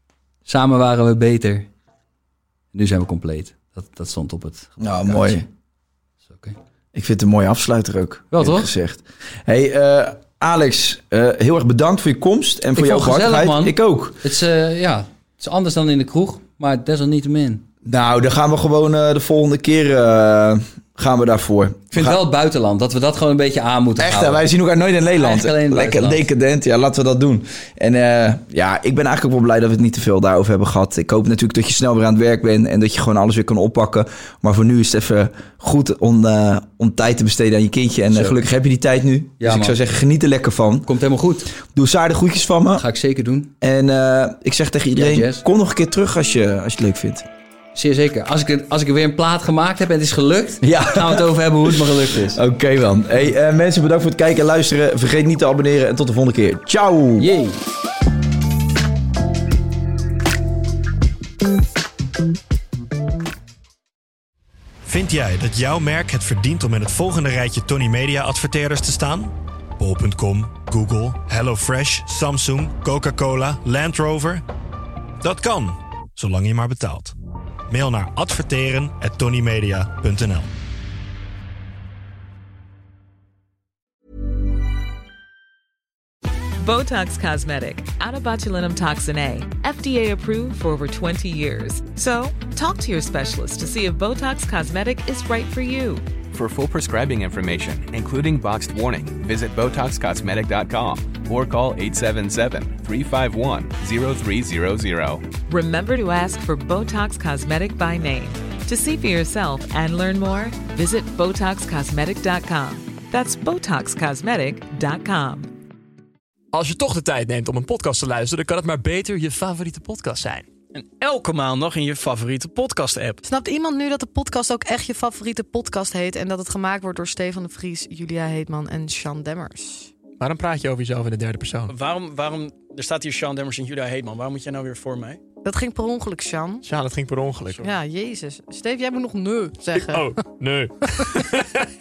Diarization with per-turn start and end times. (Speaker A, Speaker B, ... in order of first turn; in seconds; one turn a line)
Speaker A: 0.5-1.7
Speaker A: 2.7-5.4
Speaker B: 4.8-5.5
Speaker A: 6.3-6.5
Speaker B: 6.9-14.2
Speaker A: 8.3-8.7
Speaker A: 12.8-17.6
Speaker B: 17.8-22.2
Speaker A: 21.9-24.4
Speaker B: 24.0-40.9
Speaker A: 25.2-26.2
Speaker A: 38.1-38.4
Speaker A: 39.4-39.8
Speaker A: 40.9-41.5
Speaker B: 41.5-42.8
Speaker A: 42.8-43.5
Speaker B: 43.6-47.2
Speaker A: 45.0-45.4
Speaker A: 47.7-52.4
Speaker B: 50.6-57.3
Speaker A: 57.2-57.6
Speaker C: 64.8-74.4
Speaker C: 75.2-77.1
Speaker C: 77.7-80.5
Speaker D: 86.6-96.0
Speaker E: 96.3-105.3
Speaker D: 105.5-115.5
Speaker F: 116.5-120.4
Speaker G: 120.7-123.2
Speaker H: 123.2-129.9
Speaker F: 130.2-131.7
Speaker G: 131.7-135.2
Speaker H: 135.4-136.7
Speaker F: 136.6-137.6
Speaker H: 137.6-140.2
Speaker F: 139.7-141.4